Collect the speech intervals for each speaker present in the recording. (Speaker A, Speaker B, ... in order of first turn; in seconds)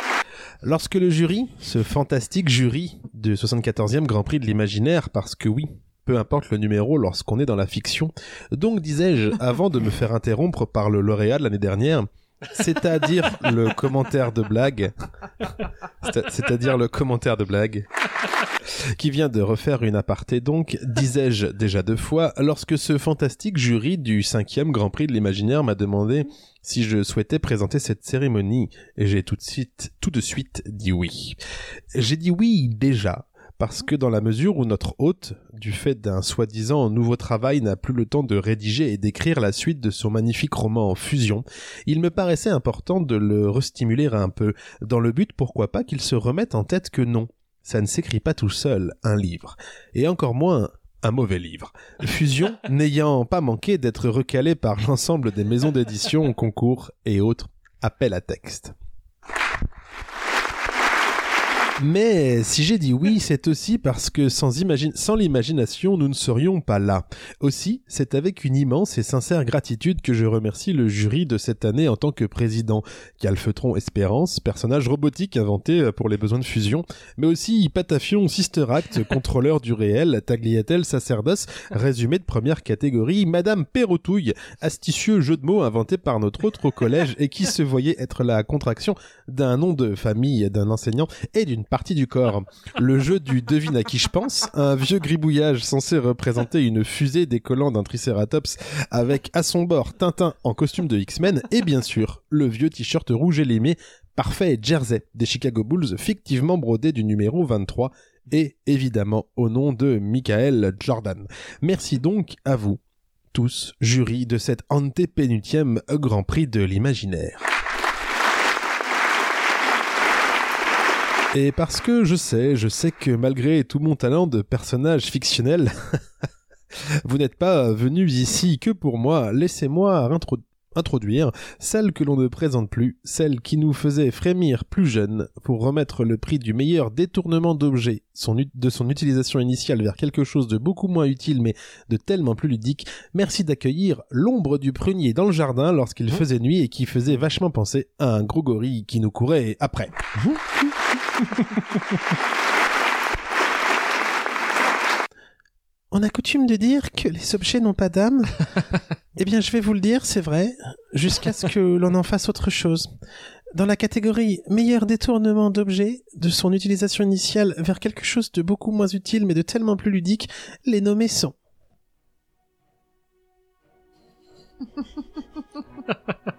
Speaker A: 0.6-14.9, 16.0-17.9, 18.9-31.4, 31.9-58.7, 61.8-112.8, 113.3-117.5, 121.3-126.0, 127.0-150.0, 155.9-158.4, 159.2-162.9, 163.5-171.3